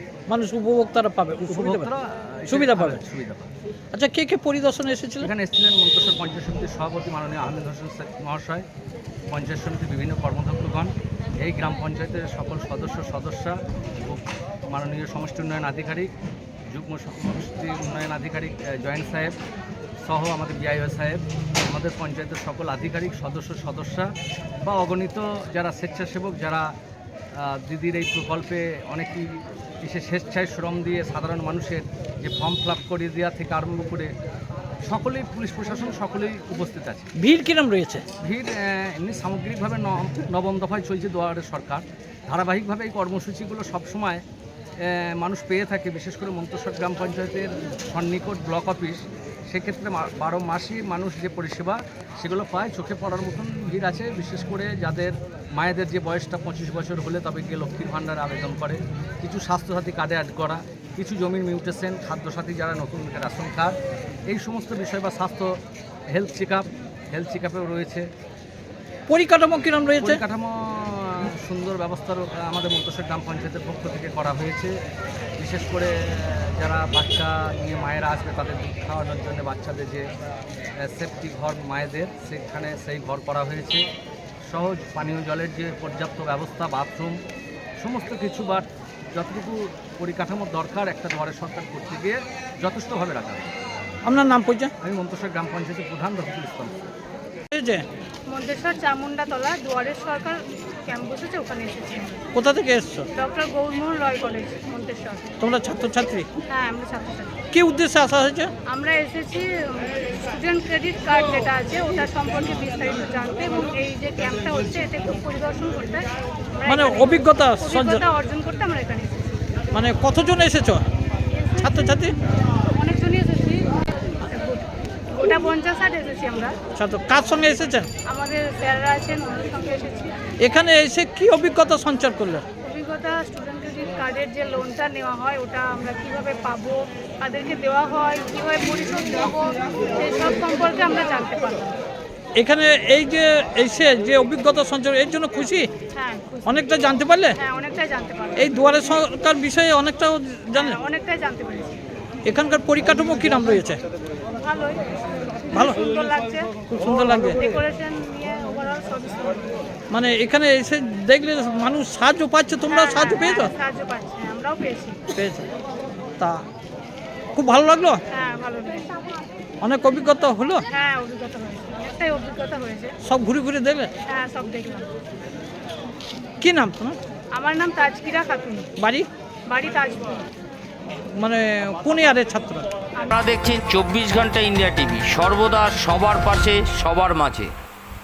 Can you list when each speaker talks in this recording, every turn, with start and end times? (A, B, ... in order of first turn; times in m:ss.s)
0:00.3-0:01.9 A
0:01.4-0:03.5 B
0:02.5-0:03.0 A
0:03.9-0:05.3 A
0:05.2-0:08.6 B
0:09.3-0:16.1 B
0:16.7-0:19.4 B
0:20.0-0:24.1 B
0:24.6-0:26.7 B
0:27.4-0:34.1 B
0:34.8-0:37.1 B
0:37.2-0:38.0 A
0:38.2-0:44.2 B
0:44.8-1:03.8 B
1:04.3-1:05.6 B
1:06.1-1:08.1 B
1:09.1-1:10.2 A
1:10.0-1:14.8 B
1:15.4-1:20.1 B
1:20.8-1:23.8 B
1:24.5-1:27.2 B
1:27.8-1:33.5 B
1:34.0-1:34.7 A
1:34.8-1:36.9 B
1:37.5-1:37.8 A
1:38.3-1:42.3 C
1:42.3-1:43.1 A
1:43.1-1:45.3 C
1:45.4-1:46.2 A
1:46.5-1:47.4 C
1:47.5-1:48.5 A
1:48.6-1:59.4 C
1:56.6-1:58.0 A
1:59.7-2:00.8 A
2:01.2-2:02.1 C
2:01.6-2:02.1 A
2:02.7-2:06.6 C
2:06.7-2:07.9 A
2:08.0-2:10.2 C
2:10.4-2:12.4 A
2:12.6-2:21.8 C
2:22.4-2:25.7 A
2:25.9-2:26.7 C
2:26.4-2:27.4 A
2:27.3-2:28.8 C
2:28.4-2:30.8 A
2:30.5-2:31.8 C
2:32.2-2:33.8 A
2:34.4-2:36.6 C
2:35.5-2:35.8 A
2:36.7-2:37.4 A
2:37.1-2:39.7 C
2:39.9-2:43.5 A
2:42.7-2:45.0 C
2:45.1-2:45.5 A
2:46.2-2:46.4 A
2:47.3-2:48.0 A
2:48.1-2:48.9 C
2:49.6-2:50.6 A
2:50.7-2:52.9 C
2:53.0-2:53.9 A
2:54.0-2:54.9 C
2:56.4-2:57.0 A
2:57.3-2:58.7 C
2:58.8-2:59.0 A
2:59.5-3:00.2 C
3:00.9-3:02.7 A
3:03.1-3:07.5 D